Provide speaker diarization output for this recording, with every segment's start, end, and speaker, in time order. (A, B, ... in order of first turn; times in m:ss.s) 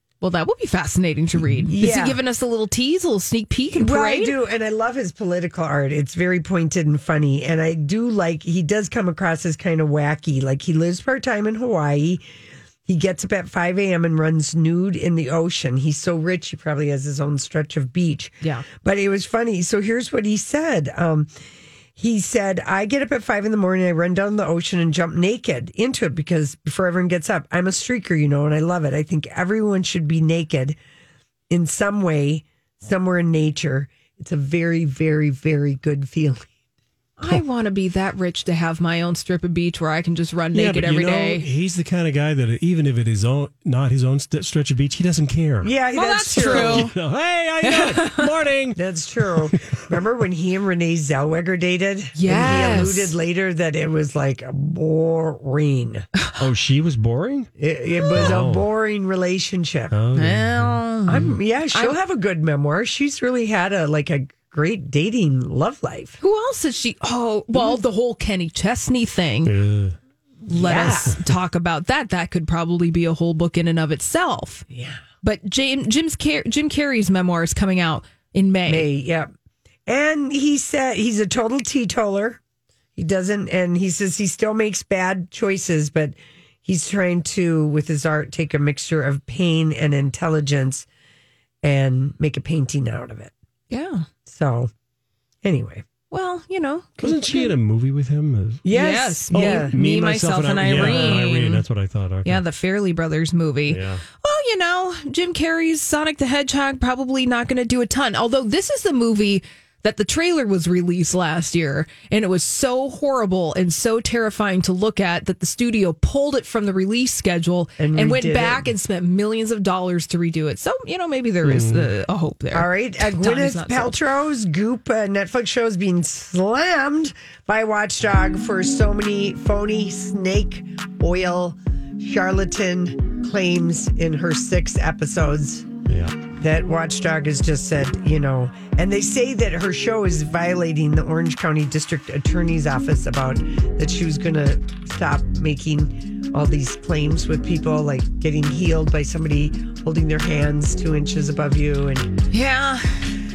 0:00.2-0:04.3 A
0:01.6-0:02.2 B
0:03.7-0:12.2 B
0:12.8-0:21.3 B
0:22.0-0:30.8 B
0:31.5-0:36.5 B
0:37.2-0:41.4 A
0:40.5-0:45.7 C
0:45.6-0:46.9 B
0:45.9-0:46.9 A
0:46.4-0:48.8 C
0:47.6-0:48.2 A
0:48.8-0:56.0 B
0:49.3-0:49.8 C
0:52.2-0:53.1 A
0:56.4-0:57.5 C
0:57.6-1:00.0 B
0:58.1-0:58.6 C
0:59.9-1:01.4 C
1:00.2-1:02.0 A
1:01.1-1:06.2 B
1:06.2-1:09.5 A
1:07.5-1:07.8 B
1:09.4-1:10.0 C
1:10.4-1:14.6 A
1:10.5-1:11.2 B
1:14.7-1:15.0 B
1:15.2-1:18.8 A
1:18.6-1:19.3 B
1:19.9-1:22.4 B
1:23.0-1:30.8 B
1:31.6-1:33.3 B
1:33.7-1:34.0 A
1:34.3-1:34.7 B
1:35.4-1:35.8 B
1:36.1-1:37.1 A
1:37.0-1:37.5 B
1:37.0-1:38.6 C
1:38.6-1:39.7 B
1:38.7-1:41.6 A
1:39.3-1:42.4 C
1:40.8-1:41.2 B
1:42.2-2:04.0 A
1:43.7-1:44.0 C
1:57.8-1:58.7 B
2:01.4-2:01.9 C
2:02.5-2:15.7 B
2:15.9-2:16.1 C
2:16.4-2:32.1 B
2:32.3-2:33.1 A